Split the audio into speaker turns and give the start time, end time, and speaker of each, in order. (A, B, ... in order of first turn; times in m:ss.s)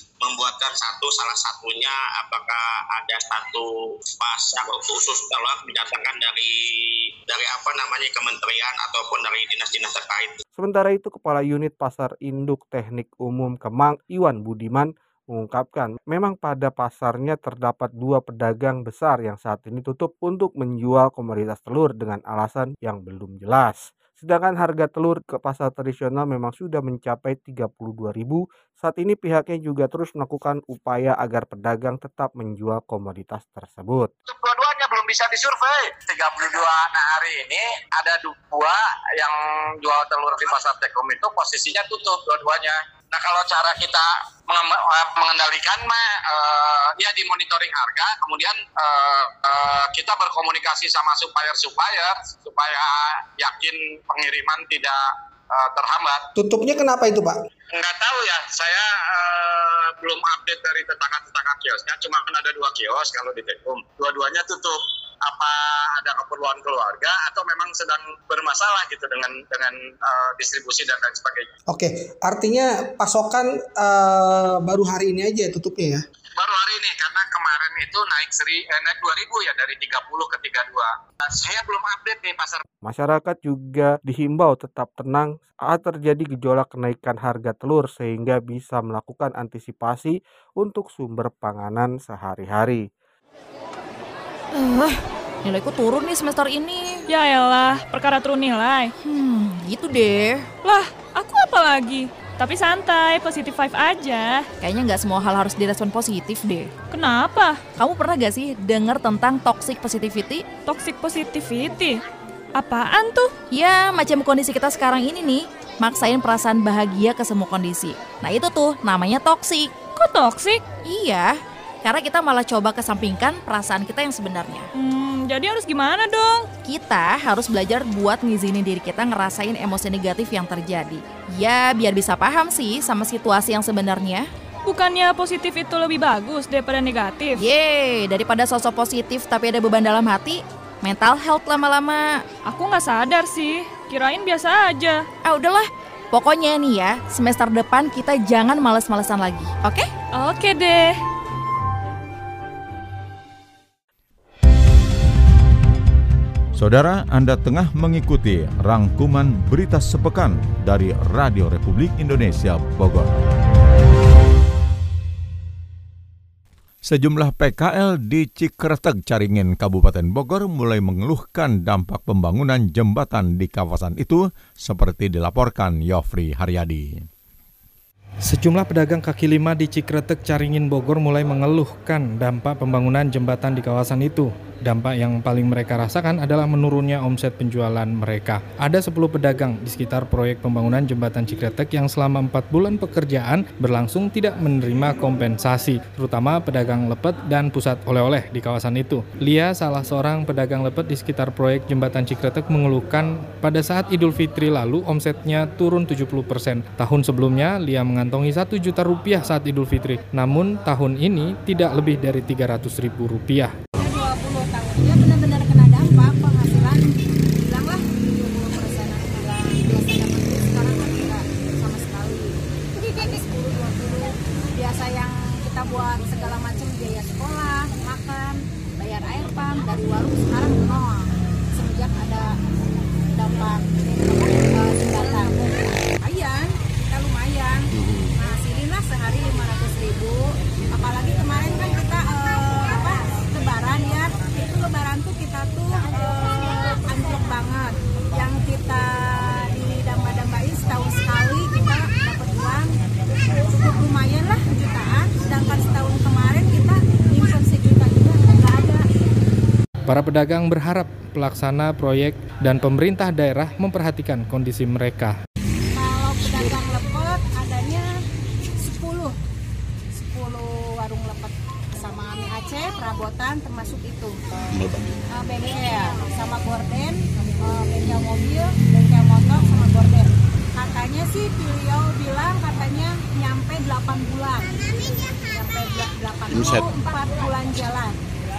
0:00.2-0:03.7 A
0:04.2-0:10.4 A
0:10.6-0:34.1 B
0:34.3-0:56.2 C
0:56.4-0:57.4 D
0:57.7-1:11.5 C
1:11.7-1:16.0 D
1:16.4-1:22.6 C
1:22.8-1:32.8 B
1:34.5-1:37.0 E
1:37.1-1:38.9 F
1:39.0-1:40.5 E
1:40.6-1:44.5 F
1:44.6-1:46.7 E
1:46.9-1:47.6 F
1:47.8-1:50.5 E
1:50.7-1:52.0 F
1:52.6-1:53.3 F
1:53.5-1:59.8 E
1:59.8-2:00.6 F
2:00.8-2:04.7 E
2:04.7-2:06.5 F
2:06.6-2:14.3 E
2:14.7-2:17.4 F
2:17.4-2:22.2 E
2:22.4-2:25.1 F
2:25.2-2:29.9 E
2:30.1-2:31.0 F
2:36.6-2:43.1 G
2:46.9-2:57.0 G
2:58.2-3:33.5 H
3:33.8-3:36.9 I
3:37.4-3:52.4 I
3:53.1-4:12.7 I
4:13.3-4:18.8 I
4:19.9-4:25.2 H
4:25.8-4:27.9 I
4:28.6-4:29.2 I
4:30.0-4:34.2 I
4:35.1-4:48.0 I